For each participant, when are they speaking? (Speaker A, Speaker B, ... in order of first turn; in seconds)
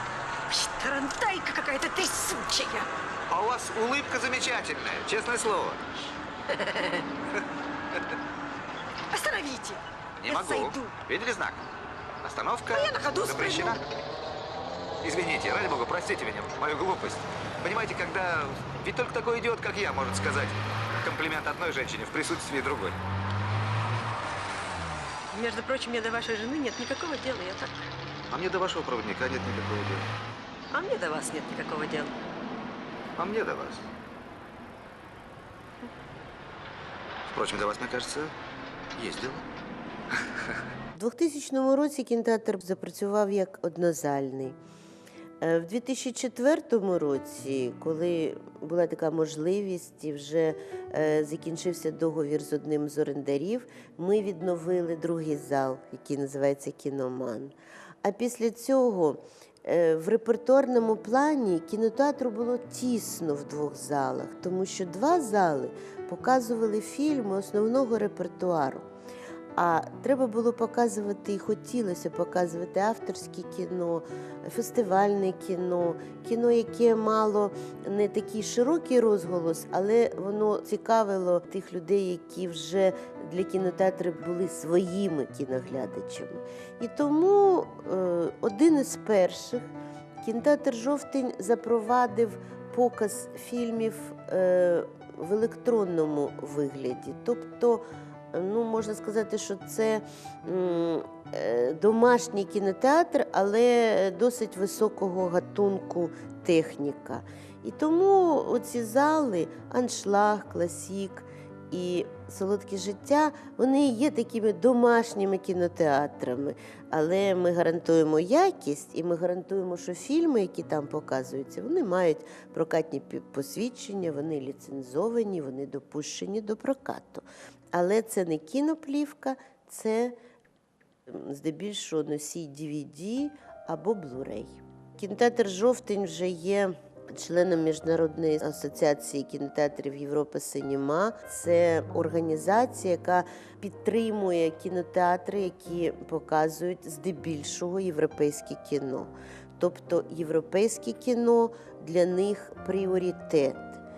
Speaker A: 0.5-2.9, 6.7-7.0, 9.1-10.9, 12.7-13.8, 25.3-27.7, 30.7-32.1
Speaker B: 3.3-5.8, 10.2-11.6, 12.2-13.8, 15.0-23.0, 28.3-30.1, 33.2-33.9, 37.3-38.3, 39.0-39.4
Speaker C: 41.0-44.6, 45.4-68.9, 69.6-130.2, 131.1-153.8